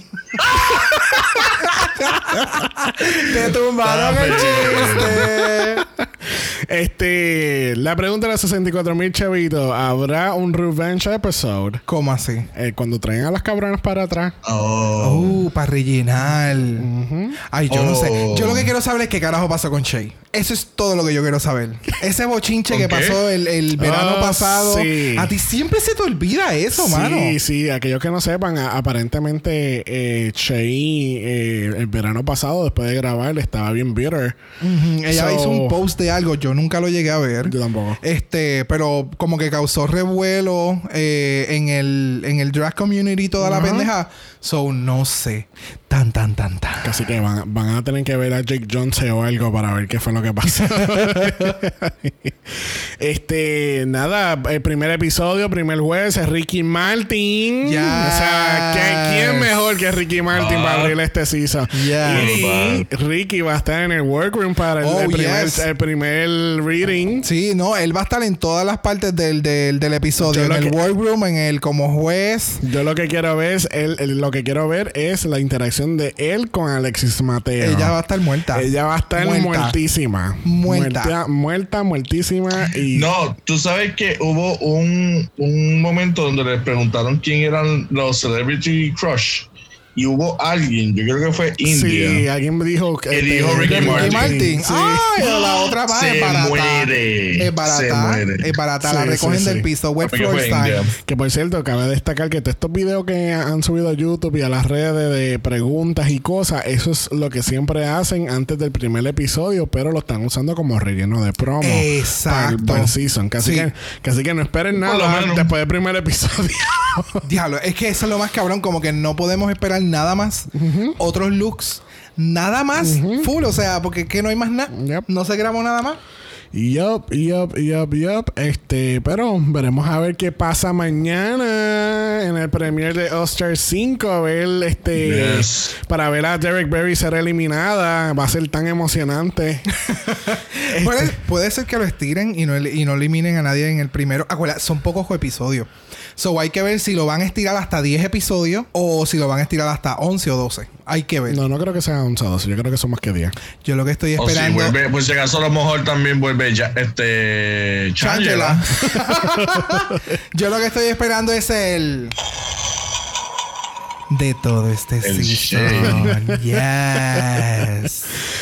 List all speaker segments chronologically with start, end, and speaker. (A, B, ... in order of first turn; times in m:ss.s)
0:00.5-0:03.3 A
0:00.7-0:05.8 B
0:03.8-0:05.3 C
0:05.0-0:11.8 A
0:11.9-0:12.5 B
0:12.5-0:14.4 A
0:14.4-0:15.4 C
0:15.0-0:16.9 B
0:16.8-0:17.4 A
0:17.4-0:27.4 B
0:17.7-0:18.7 C
0:22.7-0:23.2 C
0:23.8-0:25.3 A
0:26.7-0:34.4 A
0:34.6-0:47.0 B
0:35.1-0:35.8 A
0:37.4-0:38.0 A
0:43.4-0:43.9 A
0:46.8-1:07.3 A
0:50.6-0:51.5 B
0:57.6-0:59.5 B
1:00.3-1:01.0 C
1:01.7-1:02.3 B
1:02.1-1:02.9 C
1:04.8-1:05.7 B
1:07.2-1:12.6 B
1:10.2-1:10.8 A
1:12.6-1:18.0 A
1:17.6-1:19.8 B
1:18.5-1:23.1 A
1:20.4-1:21.1 B
1:22.9-1:32.2 C
1:31.6-1:35.1 A
1:33.1-1:34.4 C
1:33.6-1:40.9 B
1:35.2-1:38.6 C
1:38.8-1:39.7 A
1:40.0-1:40.9 C
1:41.0-1:57.2 A
1:51.6-1:53.7 B
1:54.7-1:55.5 C
1:57.2-2:06.0 B
2:00.5-2:01.0 A
2:02.8-2:03.3 A
2:04.7-2:05.1 A
2:06.5-2:19.7 A
2:15.0-2:15.7 C
2:19.7-2:31.4 B
2:20.7-2:21.2 A
2:31.3-2:33.4 A
2:33.6-2:34.8 B
2:34.2-2:38.6 C
2:38.0-2:42.2 B
2:38.9-2:40.0 A
2:44.1-2:48.1 B
2:45.0-2:46.0 C
2:45.7-2:46.4 A
2:47.0-2:47.4 A